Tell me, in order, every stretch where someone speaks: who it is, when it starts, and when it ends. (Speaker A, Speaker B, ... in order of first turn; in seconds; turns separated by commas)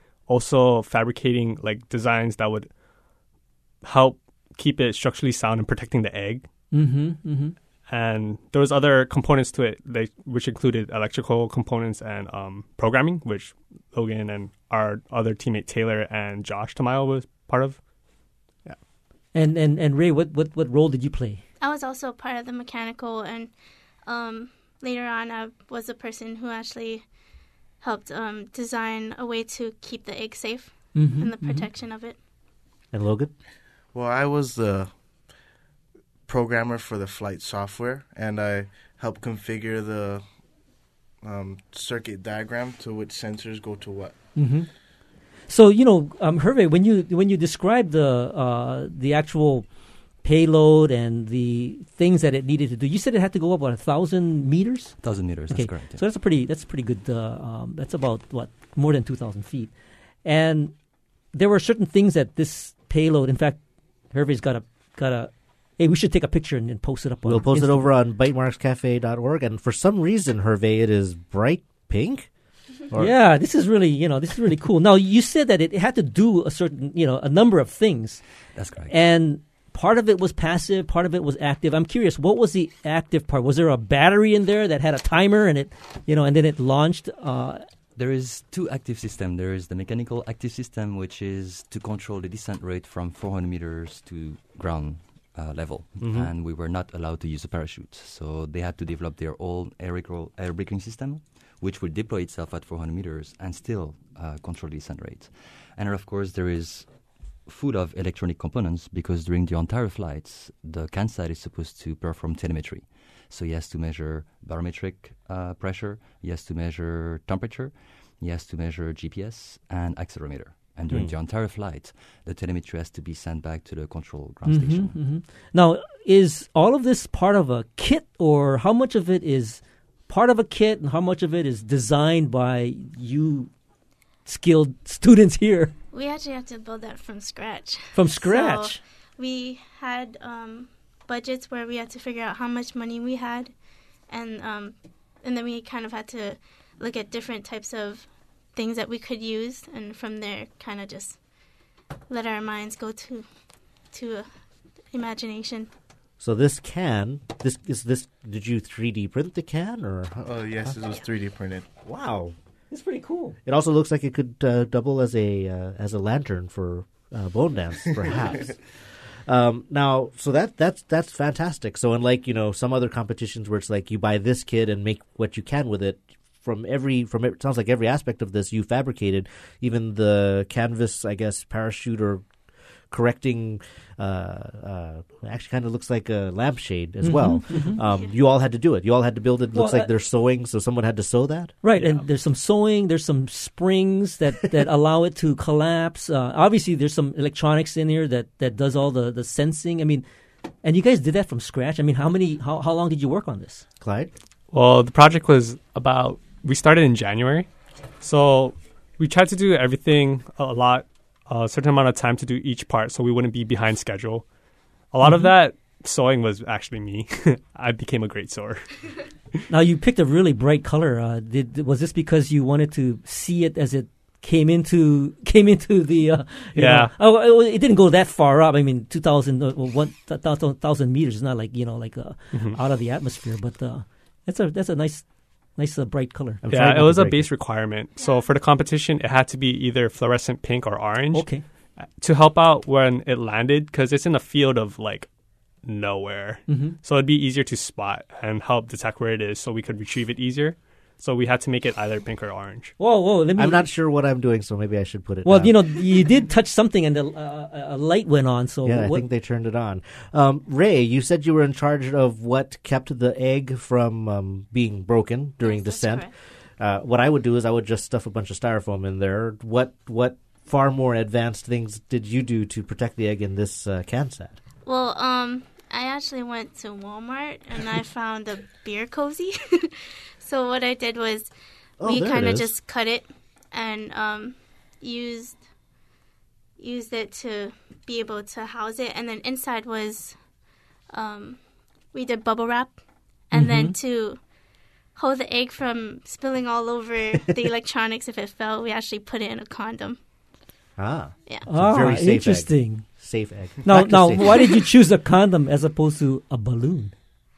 Speaker A: 0.2-2.7, Speaker A: 3.8-6.5, Speaker B: 6.7-7.5, Speaker A: 7.9-17.8, Speaker B: 19.3-21.4, Speaker C: 21.6-27.1, Speaker C: 27.8-32.2, Speaker B: 30.9-31.7, Speaker D: 32.9-33.3, Speaker E: 33.9-35.0, Speaker E: 36.2-40.4, Speaker E: 41.2-44.2, Speaker B: 44.3-44.7, Speaker B: 45.5-49.7, Speaker B: 50.2-59.7, Speaker F: 55.0-56.0, Speaker B: 60.2-60.8, Speaker B: 61.3-67.9, Speaker D: 67.2-72.3, Speaker B: 73.0-78.2, Speaker F: 78.5-79.0, Speaker B: 78.9-87.6, Speaker F: 87.9-125.0, Speaker D: 96.0-96.3, Speaker D: 120.9-121.1, Speaker B: 124.5-133.5, Speaker B: 134.2-135.7, Speaker C: 135.9-143.5, Speaker B: 137.9-138.8, Speaker C: 144.1-151.2, Speaker C: 152.1-153.3, Speaker C: 153.9-154.3, Speaker C: 154.9-155.7, Speaker D: 156.2-160.8, Speaker E: 160.2-161.7, Speaker D: 161.8-162.3, Speaker B: 162.7-163.4, Speaker D: 163.4-168.6, Speaker D: 169.3-182.2, Speaker D: 182.9-191.6, Speaker B: 187.0-187.8, Speaker C: 187.7-188.1, Speaker B: 189.5-189.9, Speaker B: 191.6-200.0, Speaker A: 191.7-192.0, Speaker B: 200.6-203.6, Speaker D: 203.8-204.1, Speaker A: 204.5-207.5, Speaker A: 208.0-214.3, Speaker A: 214.9-218.8, Speaker B: 215.0-215.3, Speaker B: 219.5-236.6, Speaker A: 226.5-226.9, Speaker A: 232.3-232.6, Speaker D: 236.4-237.3, Speaker A: 236.5-245.1, Speaker C: 237.9-238.3, Speaker B: 241.1-241.4, Speaker A: 245.6-252.7, Speaker B: 246.5-246.8, Speaker B: 252.8-253.6, Speaker D: 253.4-255.6, Speaker B: 255.2-259.0, Speaker D: 258.6-274.4, Speaker C: 265.4-266.1, Speaker C: 274.6-285.4, Speaker D: 281.8-282.6, Speaker C: 286.6-290.2, Speaker C: 290.9-294.2, Speaker B: 293.3-293.8, Speaker C: 294.9-300.0, Speaker D: 300.8-304.5, Speaker B: 301.4-302.8, Speaker B: 303.6-306.9